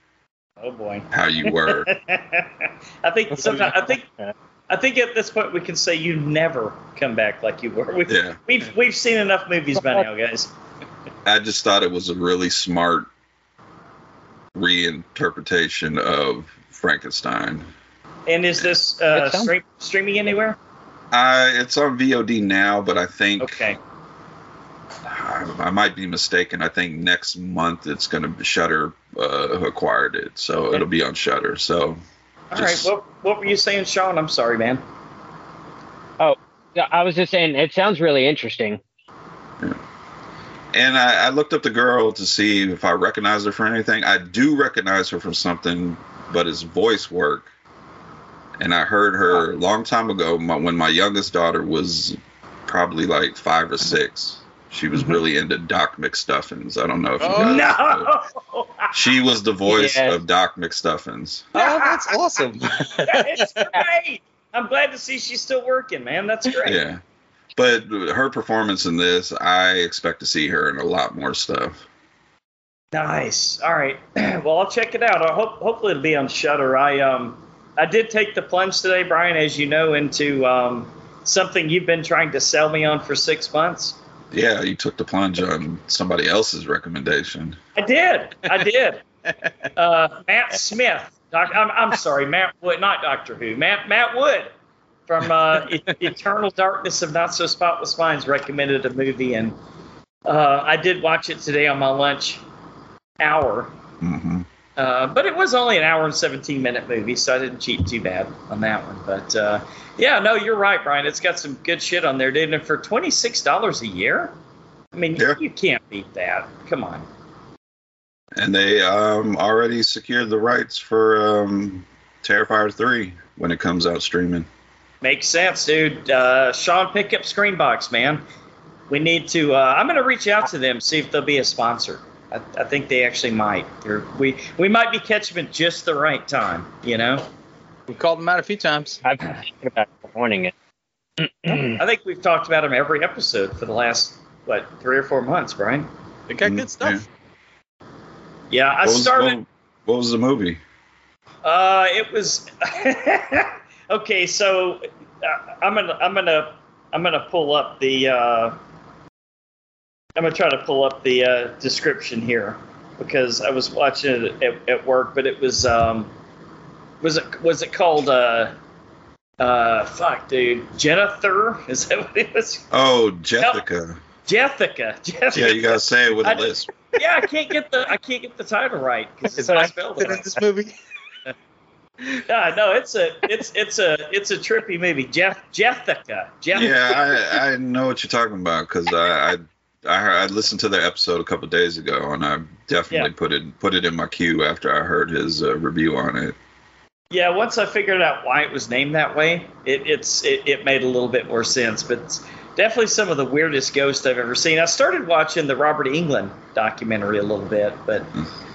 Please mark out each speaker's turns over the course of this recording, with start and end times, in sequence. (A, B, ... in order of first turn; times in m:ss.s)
0:00.6-0:04.0 A
0:01.1-0:01.9 B
0:03.4-0:04.3 C
0:04.7-0:10.5 A
0:08.1-0:08.4 B
0:09.8-0:10.0 C
0:11.2-0:13.1 B
0:14.5-0:17.7 B
0:18.3-0:20.6 A
0:19.2-0:19.5 C
0:21.1-0:23.6 B
0:23.4-0:23.8 A
0:25.0-0:32.0 B
0:32.5-0:34.8 A
0:32.5-0:32.9 B
0:36.2-0:38.8 C
0:40.7-0:47.5 B
0:48.6-0:58.1 B
0:57.2-0:57.6 D
0:57.2-0:58.9 A
0:58.9-1:01.5 B
0:59.7-1:00.2 C
1:01.5-1:02.2 A
1:01.5-1:03.8 D
1:03.0-1:06.8 A
1:06.6-1:07.0 B
1:07.6-1:11.8 B
1:12.9-1:24.0 A
1:24.3-1:27.6 B
1:27.8-1:29.0 A
1:29.3-1:29.5 D
1:29.8-1:34.5 A
1:35.1-1:39.6 A
1:40.2-1:42.4 A
1:43.2-1:43.7 A
1:44.0-1:44.4 B
1:44.8-1:54.3 A
1:54.9-1:57.1 A
1:58.4-2:04.5 B
2:05.0-2:08.2 A
2:08.9-2:17.3 A
2:17.9-2:19.0 D
2:19.0-2:20.5 C
2:21.2-2:21.8 C
2:21.8-2:25.9 A
2:26.3-2:27.0 D
2:26.4-2:27.0 B
2:28.5-2:29.4 A
2:28.8-2:30.6 B
2:31.4-2:38.6 A
2:40.2-2:46.1 A
2:47.0-2:48.5 A
2:49.4-2:52.7 A
2:52.7-2:54.0 B
2:54.3-3:00.3 A
2:55.3-2:56.7 B
2:59.3-3:00.7 D
3:02.2-3:07.2 A
3:06.5-3:16.4 B
3:17.1-3:28.1 A